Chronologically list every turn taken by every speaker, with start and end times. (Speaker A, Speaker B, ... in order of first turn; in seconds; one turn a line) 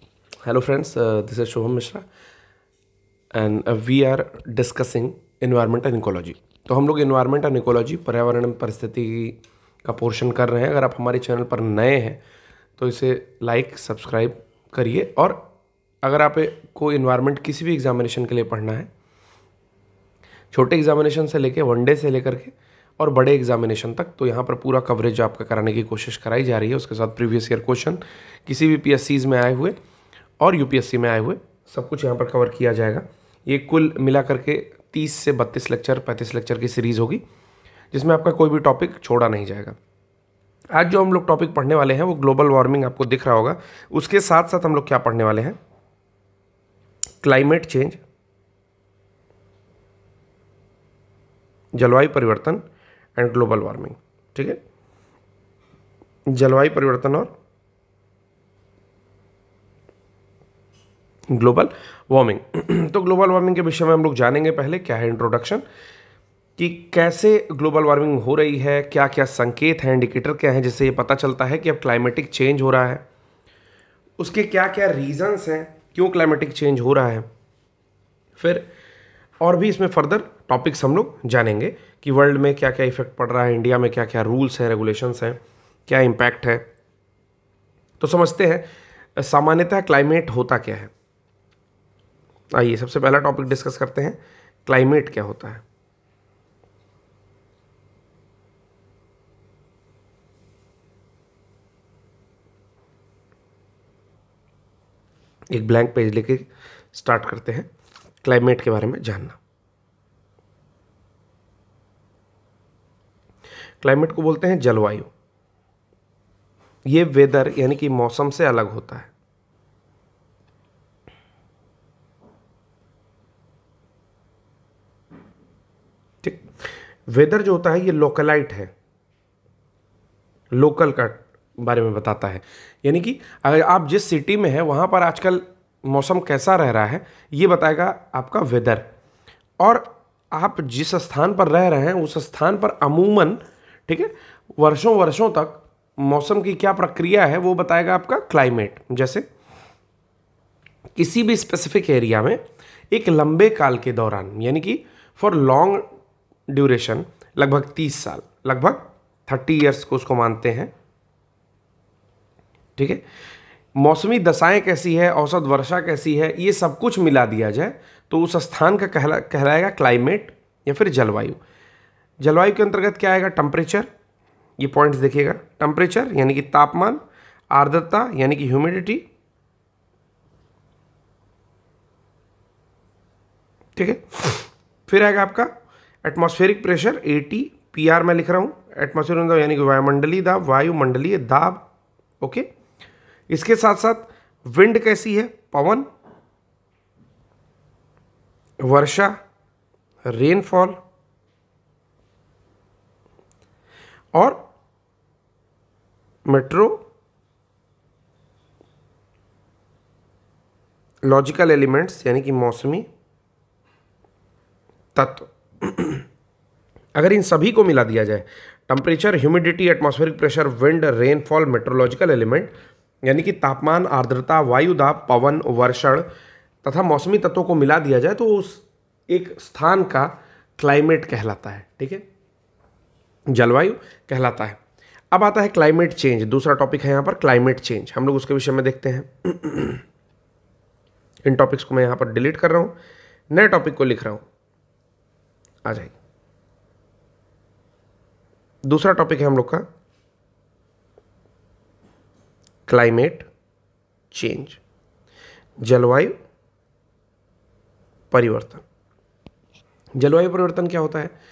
Speaker A: 0.4-2.0
Speaker A: 3.3-12.2
Speaker A: 12.8-15.5
Speaker A: 16.0-18.9
Speaker A: 20.5-29.8
Speaker A: 30.4-37.2
Speaker A: 37.9-39.8
Speaker A: 40.7-45.6
Speaker A: 47.2-48.0
Speaker A: 51.7-52.6
Speaker A: 53.1-54.6
Speaker A: 56.3-57.3
Speaker A: 61.3-65.6
Speaker A: 66.6-73.0
Speaker A: 74.2-77.3
Speaker A: 78.4-78.7
Speaker A: 79.4-86.7
Speaker A: 88.0-90.9
Speaker A: 92.5-95.6
Speaker A: 105.5-107.7
Speaker A: 108.2-109.4
Speaker A: 113.8-115.1
Speaker A: 116.8-119.1
Speaker A: 127.1-128.7
Speaker A: 130.5-138.9
Speaker A: 139.6-149.3
Speaker A: 150.9-155.8
Speaker A: 156.5-160.7
Speaker A: 162.8-163.0
Speaker A: 163.8-171.4
Speaker A: 172.2-173.9
Speaker A: 174.6-179.1
Speaker A: 183.8-185.5
Speaker A: 186.0-191.6
Speaker A: 192.2-192.5
Speaker A: 193.3-195.9
Speaker A: 198.6-199.2
Speaker A: 200.1-200.8
Speaker A: 204.1-204.5
Speaker A: 206.2-206.8
Speaker A: 211.0-212.9
Speaker A: 214.9-216.0
Speaker A: 216.9-222.5
Speaker A: 223.0-226.1
Speaker A: 226.6-232.0
Speaker A: 233.3-234.6
Speaker A: 235.1-239.8
Speaker A: 241.2-242.7
Speaker A: 243.3-244.2
Speaker A: 245.6-245.9
Speaker A: 248.6-249.6
Speaker A: 252.7-253.3
Speaker A: 254.1-254.6
Speaker A: 255.6-256.1
Speaker A: 258.1-258.6
Speaker A: 260.0-261.1